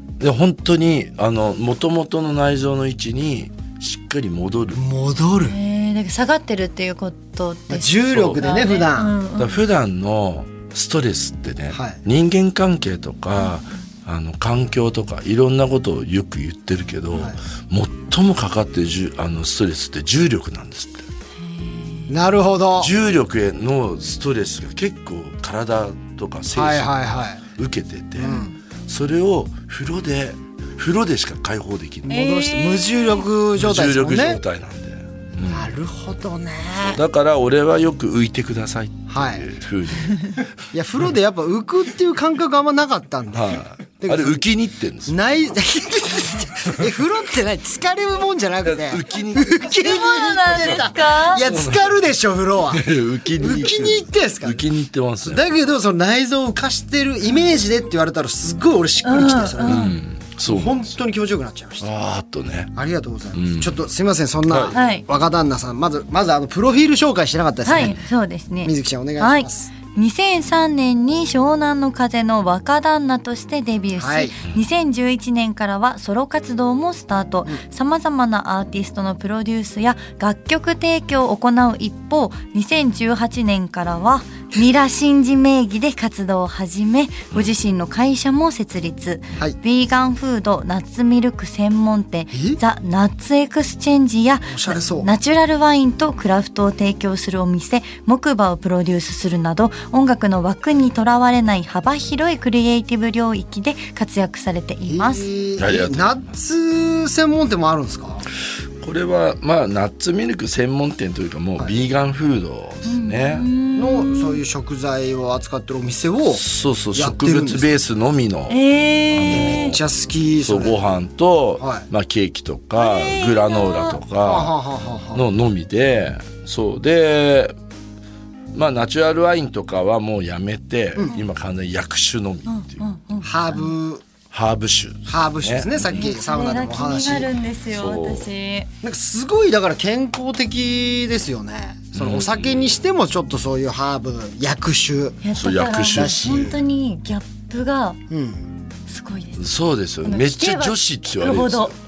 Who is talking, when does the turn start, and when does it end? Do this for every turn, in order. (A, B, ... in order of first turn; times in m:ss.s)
0:00.2-0:04.8 A
0:04.7-0:05.6 B
0:05.4-0:09.6 C
0:07.7-0:09.2 B
0:08.1-0:08.4 A
0:09.4-0:21.1 A
0:11.7-0:12.0 B
0:17.1-0:17.4 B
0:21.4-0:22.1 C
0:22.1-0:22.9 B
0:22.8-0:28.3 A
0:26.5-0:27.4 B
0:28.2-0:28.5 B
0:28.2-0:28.6 C
0:28.9-0:32.2 A
0:32.1-0:34.4 B
0:32.1-0:33.2 C
0:33.6-0:35.8 A
0:35.4-0:37.0 B
0:36.8-0:40.5 A
0:39.1-0:39.5 B
0:40.7-0:44.4 B
0:43.3-0:45.2 A
0:45.1-0:54.7 B
0:48.6-0:49.7 A
0:49.8-0:51.4 C
0:51.5-0:51.8 A
0:52.7-0:55.5 A
0:55.2-0:59.9 B
0:59.0-0:59.9 C
0:59.7-1:00.9 A
1:00.5-1:01.9 B
1:01.8-1:02.7 A
1:02.7-1:08.0 B
1:03.3-1:03.8 A
1:04.5-1:04.8 A
1:04.7-1:05.0 C
1:07.6-1:45.3 C
1:08.6-1:09.7 B
1:14.0-1:14.4 B
1:32.3-1:32.6 B
1:34.5-1:35.1 B
1:44.8-1:48.2 B
1:45.6-1:46.2 A
1:48.8-1:53.5 A
1:52.9-1:54.4 C
1:53.8-1:56.4 B
1:56.3-1:58.6 A
1:56.9-1:57.7 B
1:58.5-1:59.8 C
1:59.1-1:59.8 A
1:59.3-2:00.8 B
2:00.4-2:04.5 A
2:01.6-2:01.9 B
2:02.8-2:04.0 C
2:04.2-2:05.2 B
2:05.1-2:07.6 A
2:08.5-2:12.9 A
2:12.5-2:13.7 C
2:13.2-2:14.0 B
2:14.3-2:16.0 A
2:15.1-2:17.3 B
2:15.9-2:18.7 C
2:17.7-2:18.3 A
2:18.8-2:25.2 B
2:21.9-2:22.8 A
2:25.2-2:28.0 C
2:25.4-2:26.6 A
2:25.9-2:26.6 B
2:28.1-2:28.5 B
2:28.9-2:29.4 C
2:29.4-2:31.8 A
2:30.0-2:31.7 C